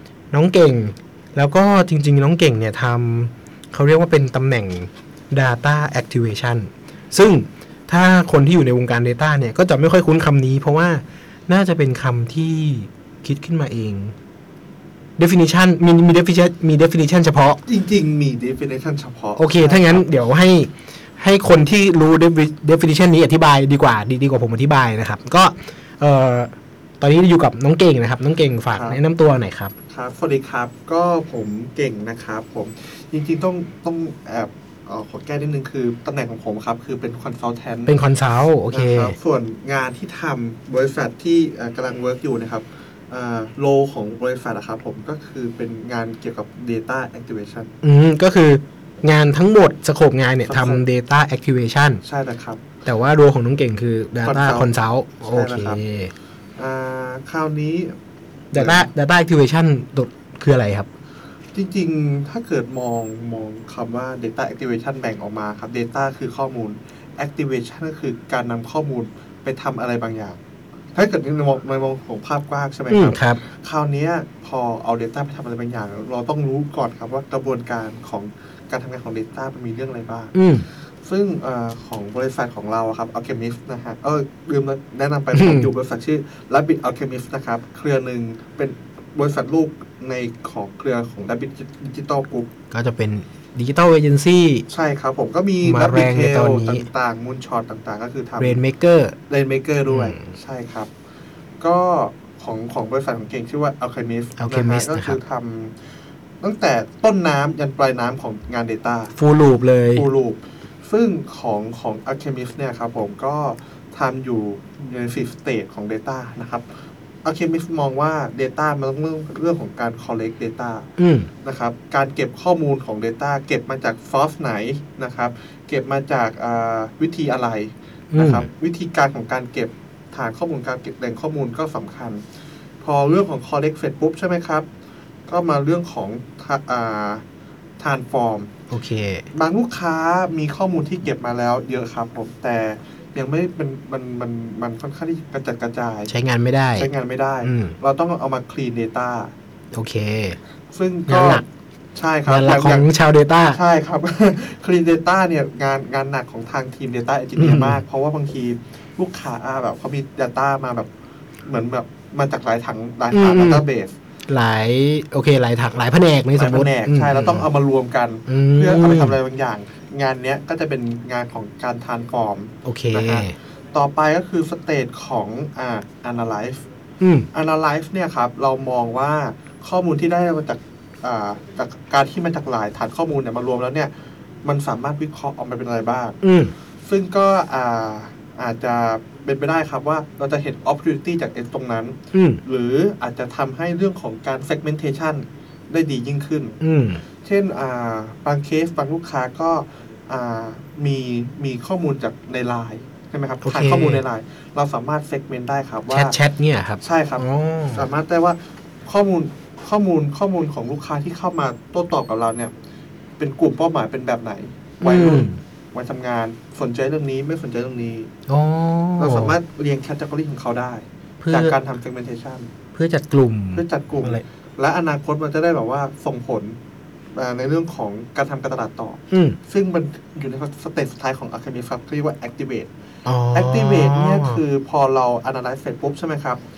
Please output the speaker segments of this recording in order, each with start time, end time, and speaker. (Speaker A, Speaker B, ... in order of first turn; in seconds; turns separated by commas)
Speaker A: 0.3-14.1, Speaker A: 15.2-17.6, Speaker B: 17.6-20.1, Speaker A: 19.4-29.7, Speaker B: 28.7-29.0, Speaker B: 29.9-38.0, Speaker A: 37.9-39.1, Speaker B: 38.7-47.7, Speaker A: 47.8-52.0, Speaker B: 50.5-50.8, Speaker B: 52.0-52.6, Speaker A: 52.9-56.1, Speaker B: 54.2-54.7, Speaker B: 55.2-55.8, Speaker B: 56.6-57.9, Speaker B: 58.5-58.9, Speaker A: 58.5-60.9, Speaker B: 61.5-70.4, Speaker B: 71.0-92.5, Speaker A: 72.9-73.4, Speaker A: 80.3-80.7, Speaker A: 85.3-85.7, Speaker A: 92.7-94.7, Speaker B: 94.7-98.6, Speaker A: 95.6-96.8, Speaker A: 98.4-99.2, Speaker B: 99.3-100.9, Speaker A: 99.9-100.2, Speaker B: 101.6-105.8, Speaker A: 104.4-105.2, Speaker B: 106.4-109.2, Speaker A: 109.2-110.1, Speaker B: 109.9-120.9, Speaker A: 121.0-121.3, Speaker B: 121.4-132.2, Speaker A: 128.1-128.5, Speaker B: 132.8-134.7, Speaker B: 135.3-137.2, Speaker B: 137.8-138.5, Speaker A: 138.7-139.3, Speaker B: 139.3-146.1, Speaker A: 146.1-146.9, Speaker B: 146.8-149.3, Speaker A: 147.4-147.8, Speaker A: 149.7-150.4, Speaker B: 150.7-151.4, Speaker A: 151.1-151.4, Speaker B: 151.9-152.9, Speaker A: 152.3-153.6, Speaker B: 153.5-160.9, Speaker A: 157.4-157.8, Speaker B: 161.4-163.9, Speaker A: 163.1-163.6, Speaker A: 164.3-167.5, Speaker B: 166.4-176.7, Speaker A: 168.3-169.2, Speaker A: 172.7-173.3, Speaker A: 177.0-177.3, Speaker B: 177.3-183.9, Speaker B: 184.4-186.2, Speaker A: 186.2-186.5, Speaker B: 186.8-196.6, Speaker A: 192.1-192.4, Speaker A: 196.6-197.0, Speaker B: 197.2-206.2, Speaker A: 203.4-204.0, Speaker A: 205.9-207.8, Speaker B: 206.8-212.5, Speaker B: 213.2-218.1, Speaker A: 214.8-215.4, Speaker A: 218.3-219.4, Speaker B: 219.0-222.5, Speaker A: 221.2-221.6, Speaker A: 222.8-224.2, Speaker B: 223.6-226.6, Speaker B: 227.1-232.7, Speaker A: 229.1-229.4, Speaker A: 233.1-234.4, Speaker B: 233.3-236.4